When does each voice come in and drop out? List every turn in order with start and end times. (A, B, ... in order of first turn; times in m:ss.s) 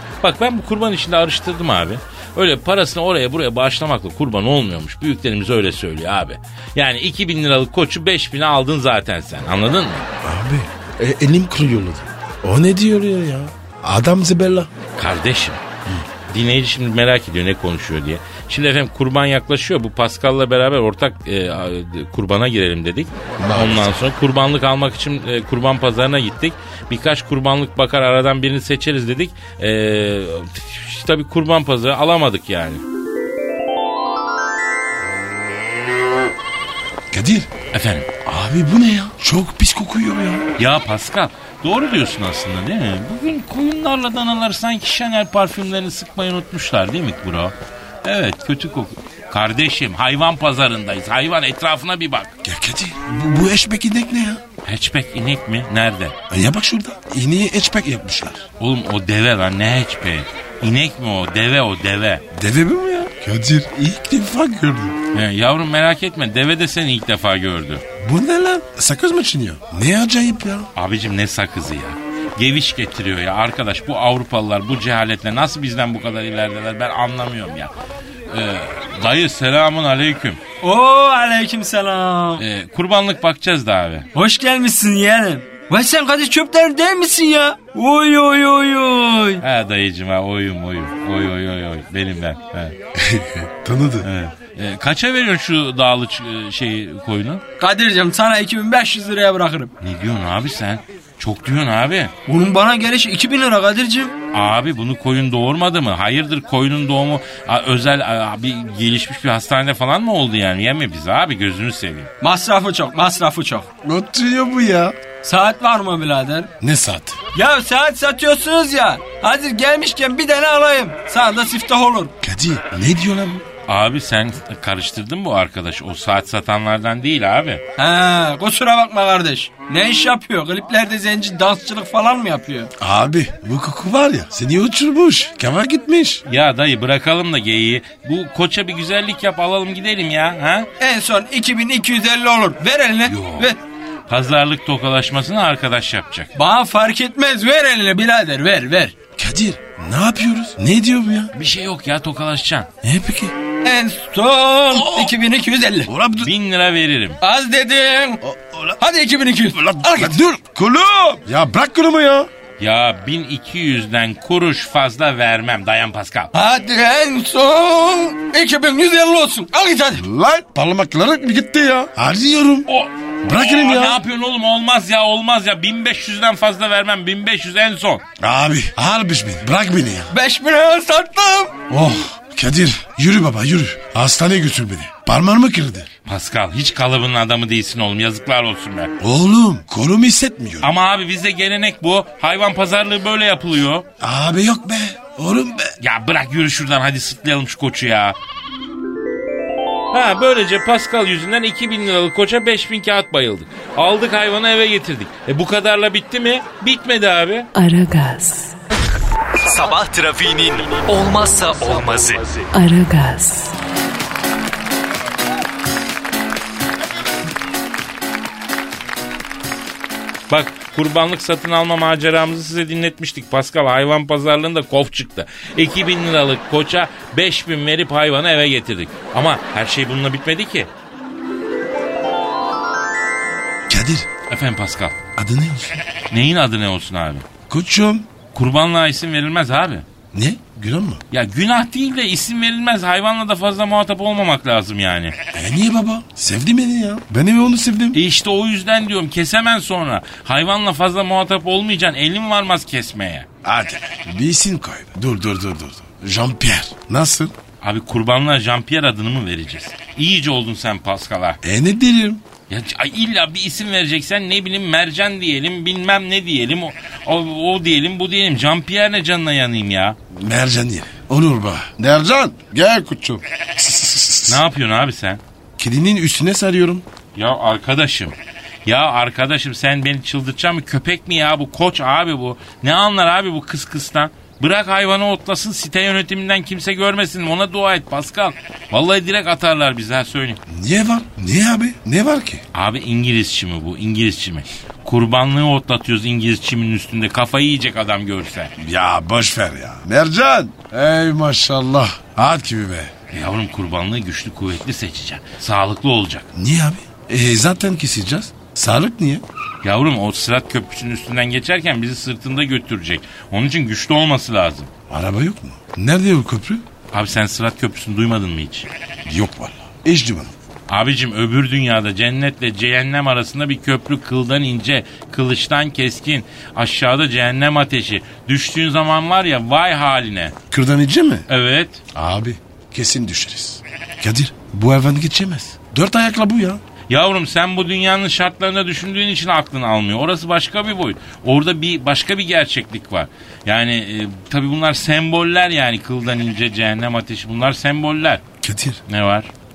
0:00.2-0:10.1 A
0:10.2-0:14.7 B
0:15.0-0:15.6 A
0:16.3-0:32.8 A
0:23.4-0:24.0 B
0:37.1-0:37.5 B
0:37.7-0:38.1 A
0:38.2-0:40.5 B
0:40.6-0:52.4 A
0:52.4-0:54.4 B
0:54.6-0:56.2 A
0:56.3-0:58.5 B
0:58.6-1:02.2 A
1:02.3-1:05.0 B
1:05.1-1:07.8 A
1:08.0-1:10.7 B
1:10.8-1:17.7 A
1:18.3-1:20.4 A
1:20.6-1:22.4 C
1:22.4-1:24.1 A
1:24.2-1:29.4 C
1:29.4-1:32.8 A
1:33.0-1:34.1 B
1:34.0-1:37.4 A
1:37.6-1:39.7 C
1:39.8-1:42.1 A
1:42.3-1:44.2 C
1:44.3-1:52.1 A
1:52.2-1:53.7 C
1:53.8-1:55.0 B
1:55.2-1:56.5 C
1:56.6-1:57.2 B
1:57.3-2:02.1 C
2:02.2-2:03.4 B
2:03.7-2:07.6 A
2:07.8-2:12.7 C
2:12.8-2:16.2 B
2:16.3-2:20.7 A
2:20.8-2:23.6 C
2:23.1-2:23.5 A
2:24.1-2:26.3 A
2:26.4-2:28.9 C
2:29.2-2:31.3 B
2:31.3-2:32.7 A
2:32.8-2:33.4 B
2:33.6-2:35.9 C
2:34.7-2:35.2 B
2:35.9-2:36.3 B
2:36.2-2:37.2 A
2:37.2-2:38.2 C
2:38.2-2:38.8 B
2:38.8-2:40.2 C
2:39.5-2:42.3 B
2:42.6-2:46.3 A
2:46.3-2:50.0 C
2:50.0-2:52.7 B
2:52.7-2:58.0 A
2:53.2-2:54.0 B
2:58.2-3:00.1 B
3:00.1-3:01.6 C
3:01.7-3:05.9 B
3:06.1-3:08.9 A
3:09.0-3:10.7 B
3:10.6-3:13.9 A
3:14.0-3:15.8 B
3:15.8-3:18.2 A
3:19.9-3:27.5 A
3:27.6-3:28.6 D
3:29.4-3:32.5 E
3:32.5-3:33.5 D
3:40.3-3:50.7 A
3:53.7-3:54.1 B
3:54.3-3:55.0 A
3:55.2-3:55.8 B
3:56.1-3:57.3 A
3:57.5-3:58.1 B
3:58.3-3:59.9 A
4:00.1-4:01.0 B
4:01.1-4:05.2 A
4:05.3-4:08.0 B
4:07.9-4:13.3 A
4:13.4-4:17.3 B
4:17.6-4:21.4 A
4:21.4-4:22.2 B
4:22.5-4:30.0 A
4:30.1-4:34.4 B
4:34.3-4:35.2 A
4:35.6-4:36.9 B
4:37.2-4:50.4 A
4:50.5-4:52.4 B
4:52.5-4:58.5 A
4:58.6-5:02.9 B
5:03.1-5:06.3 A
5:06.3-5:09.3 B
5:09.6-5:14.7 A
5:14.9-5:16.6 B
5:16.9-5:18.7 A
5:19.1-5:20.3 B
5:20.7-5:30.4 A
5:30.5-5:31.3 B
5:31.3-5:31.8 A
5:31.9-5:36.6 B
5:36.9-5:48.2 A
5:48.4-5:48.8 B
5:48.9-5:49.3 A